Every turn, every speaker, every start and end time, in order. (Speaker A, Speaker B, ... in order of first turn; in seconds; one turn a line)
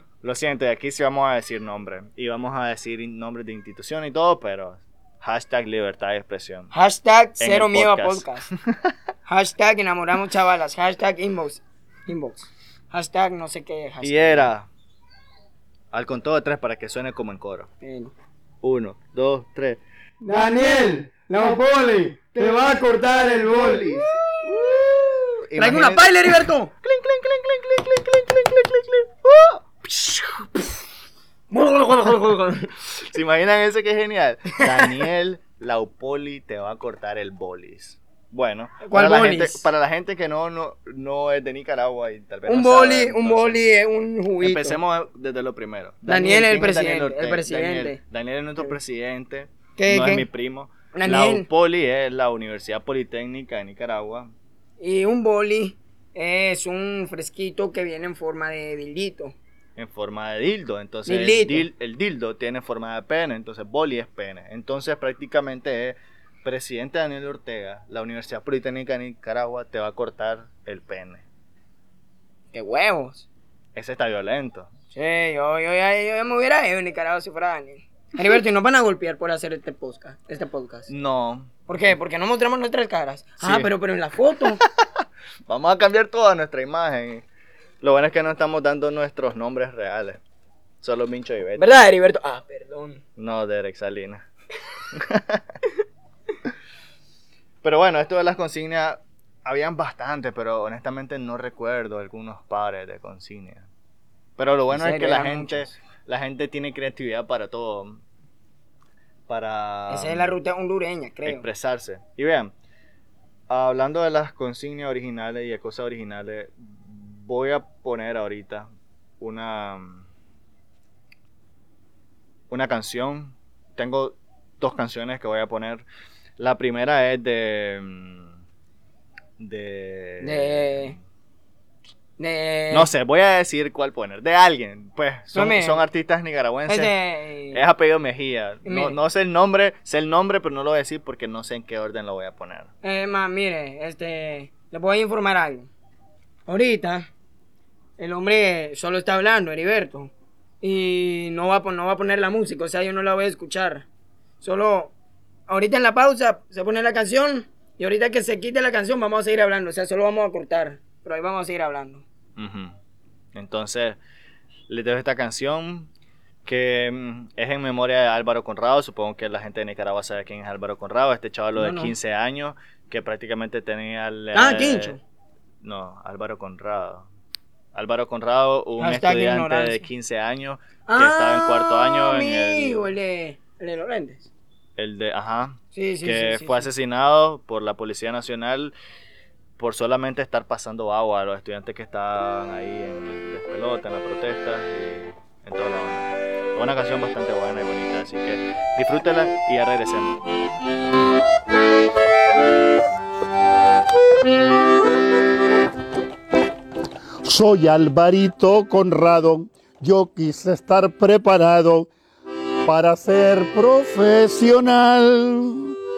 Speaker A: 0.2-6.7
Speaker B: 6.7-8.5
Speaker A: 7.4-8.9
Speaker B: 9.3-14.5
Speaker A: 14.0-14.7
Speaker A: 15.9-17.7
Speaker B: 17.8-18.1
Speaker A: 18.6-19.8
Speaker B: 20.2-24.0
Speaker A: 22.4-22.7
Speaker A: 23.4-30.5
Speaker B: 25.6-26.7
Speaker B: 31.5-32.7
Speaker A: 32.9-43.6
Speaker B: 34.6-34.9
Speaker B: 38.8-39.6
Speaker B: 42.5-44.8
Speaker A: 44.4-54.3
Speaker B: 46.1-48.0
Speaker B: 49.8-50.3
Speaker B: 50.9-51.5
Speaker B: 54.8-59.3
Speaker A: 59.8-71.2
Speaker B: 61.1-61.6
Speaker B: 72.5-73.2
Speaker A: 73.7-74.7
Speaker B: 74.9-80.9
Speaker A: 80.9-81.5
Speaker B: 81.7-84.6
Speaker A: 83.4-83.7
Speaker A: 84.6-84.8
Speaker A: 85.5-87.2
Speaker A: 87.8-90.2
Speaker A: 90.8-91.6
Speaker B: 91.6-93.0
Speaker A: 93.2-94.2
Speaker A: 94.9-95.4
Speaker A: 97.6-103.7
Speaker A: 104.4-108.0
Speaker B: 104.7-105.7
Speaker A: 109.3-110.3
Speaker B: 109.9-111.5
Speaker A: 111.2-112.5
Speaker A: 113.5-118.7
Speaker A: 119.2-120.0
Speaker A: 122.5-125.8
Speaker A: 126.4-128.3
Speaker A: 129.4-130.9
Speaker B: 130.2-130.9
Speaker B: 132.2-132.9
Speaker A: 132.7-136.9
Speaker B: 135.3-135.8
Speaker B: 136.7-137.6
Speaker A: 137.5-142.7
Speaker B: 138.6-138.9
Speaker B: 142.8-145.7
Speaker B: 146.5-147.1
Speaker B: 148.0-153.8
Speaker B: 154.4-154.9
Speaker B: 155.5-162.0
Speaker A: 162.4-162.7
Speaker A: 163.3-164.0
Speaker A: 164.7-165.9
Speaker A: 166.4-175.0
Speaker B: 171.6-171.9
Speaker B: 174.3-175.0
Speaker A: 175.6-177.1
Speaker A: 177.7-182.9
Speaker B: 178.8-179.9
Speaker B: 180.9-184.3
Speaker A: 184.8-188.7
Speaker B: 185.7-186.7
Speaker A: 189.6-200.2
Speaker C: 207.2-211.9
Speaker C: 212.6-215.8